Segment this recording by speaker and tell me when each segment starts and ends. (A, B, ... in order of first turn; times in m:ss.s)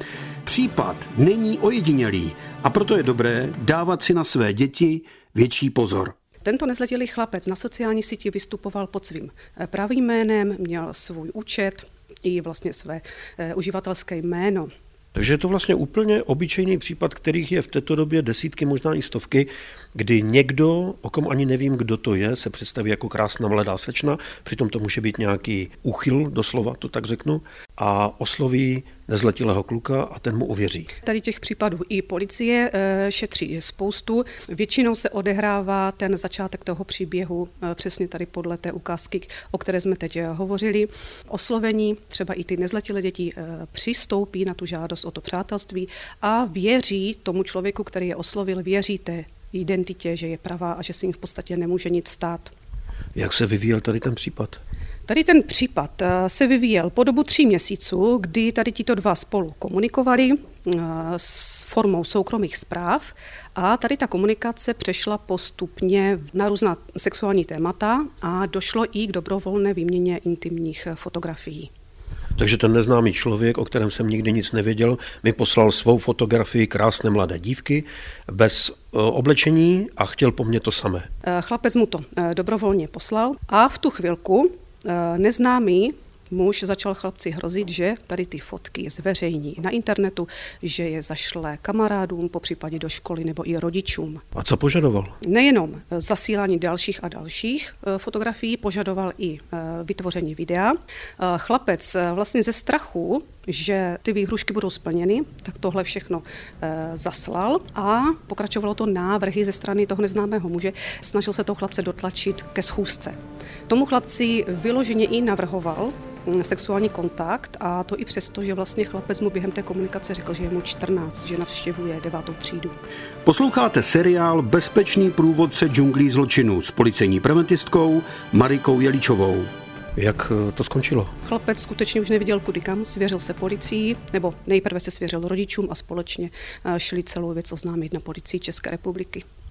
0:00.5-0:06.1 A
0:06.4-0:14.7 B
0:15.2-0:30.9 C
0:31.0-0:52.5 B
0:53.2-0:54.6 C
0:55.1-1:11.7 B
1:12.4-1:21.1 C
1:21.2-1:34.2 B
1:34.4-1:35.2 C
1:35.2-1:53.2 B
1:53.7-2:02.8 B
2:03.2-2:09.5 A
2:10.0-2:11.1 C
2:11.2-2:19.2 B